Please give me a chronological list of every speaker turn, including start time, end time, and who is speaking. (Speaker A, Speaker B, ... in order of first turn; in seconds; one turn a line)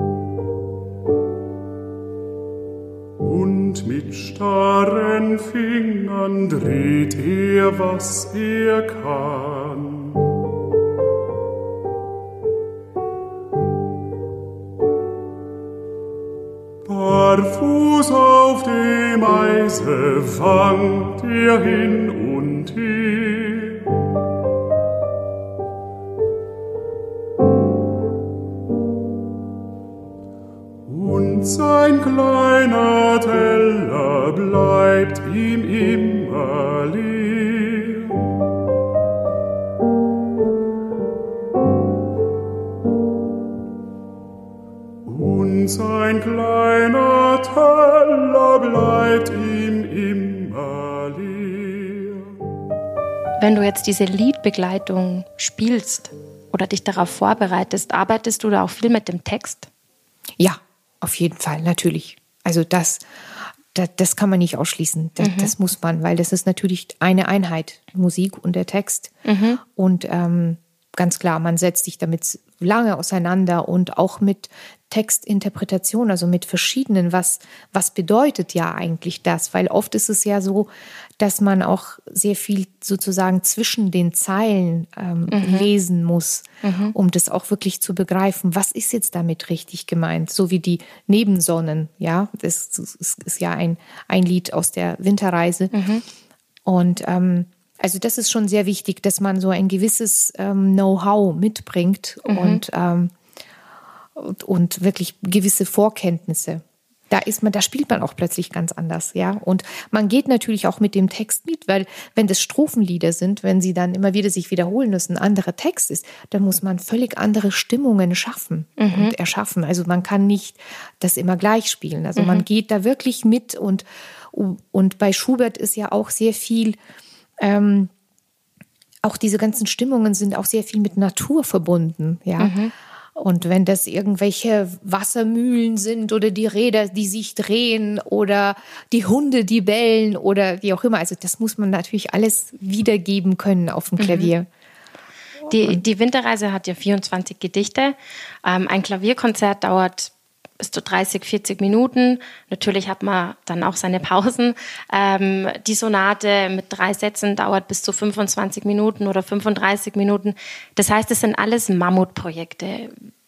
Speaker A: 3.2-10.3
Speaker A: 16.9-23.9
Speaker A: 30.9-38.2
Speaker A: 45.0-52.3
Speaker B: 53.4-59.7
Speaker C: 60.4-69.1
Speaker B: 65.2-65.5
Speaker B: 69.2-69.6
Speaker C: 69.7-95.7
Speaker B: 85.3-85.7
Speaker B: 86.6-86.9
Speaker B: 95.7-96.0
Speaker C: 96.6-103.1
Speaker B: 102.2-102.6
Speaker C: 104.2-126.8
Speaker B: 118.8-119.1
Speaker B: 122.2-122.4
Speaker C: 127.4-127.9
Speaker C: 129.0-132.5
Speaker B: 132.4-132.7
Speaker C: 133.1-144.5
Speaker B: 144.0-144.3
Speaker B: 145.5-162.9
Speaker C: 145.5-145.8